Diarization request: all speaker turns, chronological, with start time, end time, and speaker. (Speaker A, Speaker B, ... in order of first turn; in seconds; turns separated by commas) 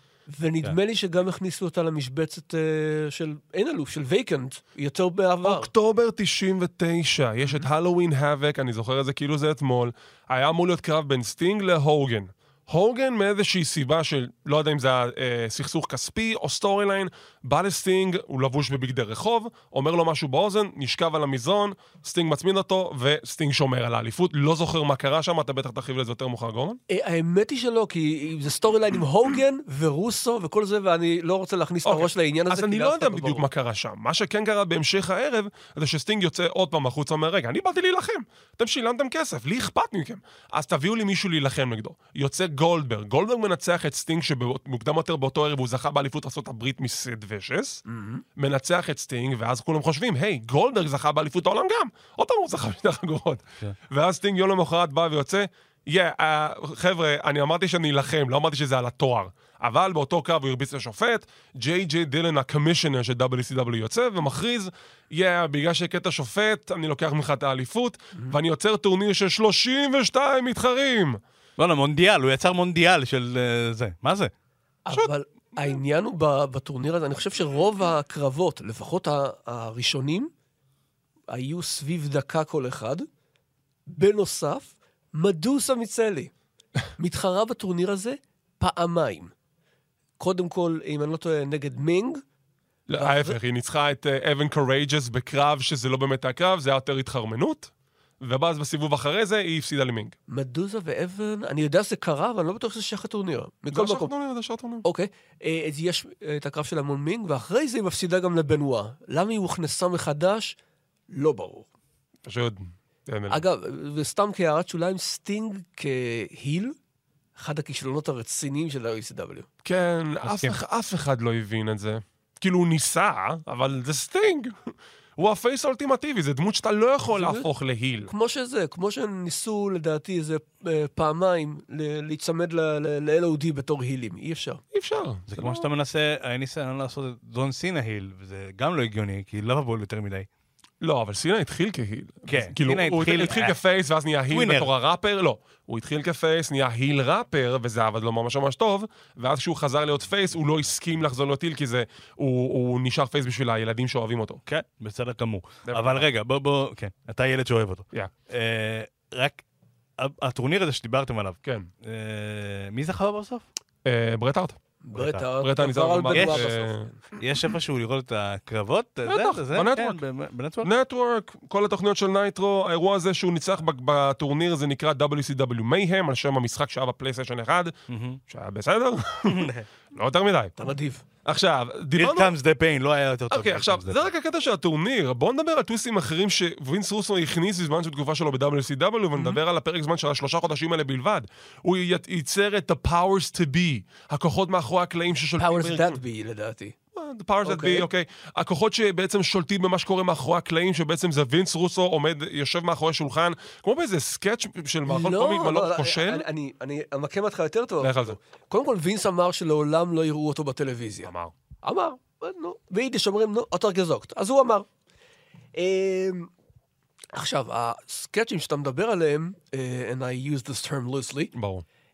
Speaker A: 0.3-5.7, Speaker B: 5.4-26.8, Speaker A: 26.9-33.4, Speaker B: 31.8-47.8, Speaker A: 47.9-48.2, Speaker B: 48.4-71.2, Speaker C: 71.6-74.3, Speaker A: 74.8-80.3, Speaker A: 81.3-83.0, Speaker A: 83.9-86.3, Speaker A: 87.0-89.3, Speaker A: 90.2-92.2, Speaker B: 92.9-97.7, Speaker A: 92.9-93.4, Speaker B: 98.2-100.1, Speaker A: 100.3-104.1, Speaker B: 103.7-104.8, Speaker A: 104.8-110.5, Speaker A: 111.1-111.7, Speaker B: 112.2-113.4, Speaker A: 113.3-116.7, Speaker A: 117.3-119.5, Speaker B: 119.6-128.1, Speaker C: 120.2-120.6, Speaker A: 127.1-127.5, Speaker A: 128.1-134.6, Speaker B: 134.7-135.7, Speaker C: 135.3-140.3, Speaker B: 140.8-154.4, Speaker C: 142.3-143.6, Speaker C: 144.3-144.7, Speaker C: 154.5-159.4, Speaker B: 155.7-156.1, Speaker C: 160.0-163.4, Speaker B: 163.8-164.6, Speaker A: 164.8-167.0, Speaker C: 164.9-165.2, Speaker B: 165.4-166.9, Speaker C: 166.1-166.5, Speaker C: 167.2-170.7, Speaker B: 169.1-170.0, Speaker B: 170.6-177.7, Speaker C: 177.9-178.2, Speaker B: 178.3-180.5, Speaker C: 179.2-179.7, Speaker A: 180.6-181.0, Speaker B: 181.2-182.3, Speaker C: 181.9-184.1, Speaker B: 183.3-196.0, Speaker A: 195.4-196.7, Speaker B: 196.9-206.2, Speaker A: 197.4-197.9, Speaker A: 204.8-211.1, Speaker B: 207.8-208.2, Speaker B: 211.0-211.3, Speaker A: 211.6-214.7, Speaker A: 215.5-216.3, Speaker A: 217.1-221.3, Speaker B: 221.3-221.6